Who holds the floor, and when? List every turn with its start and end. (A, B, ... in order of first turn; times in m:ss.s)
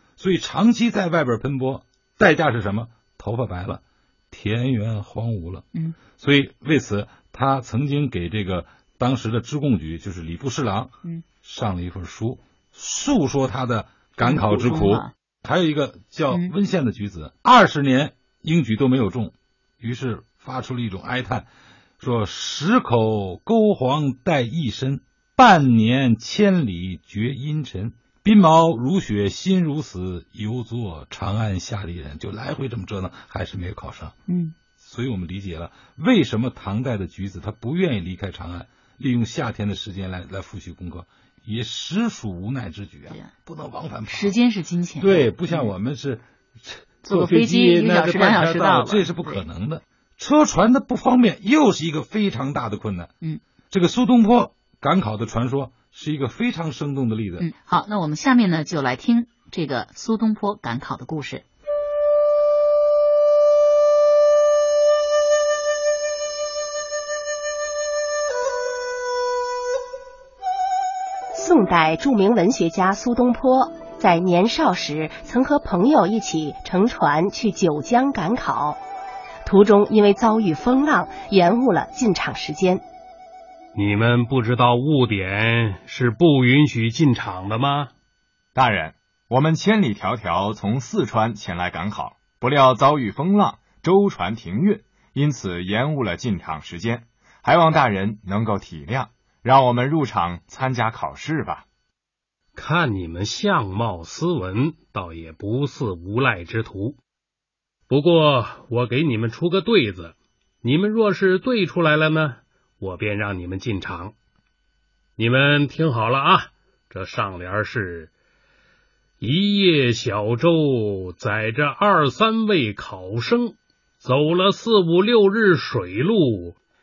0:00.2-0:21.5 A
0:14.2-0:15.1 B
0:22.0-0:34.1 A
0:34.3-0:34.5 B
0:34.8-0:44.4 A
0:44.1-0:45.7 B
0:45.0-0:53.1 A
0:47.0-0:49.4 B
0:53.7-0:57.5 A
0:57.4-1:01.4 B
1:11.3-1:18.8 C
1:19.4-1:22.8 C
1:23.7-1:27.9 D
1:28.5-1:41.6 E
1:42.5-1:47.0 D
1:47.9-1:54.1 D
1:55.2-1:58.1 D
1:59.2-2:06.6 D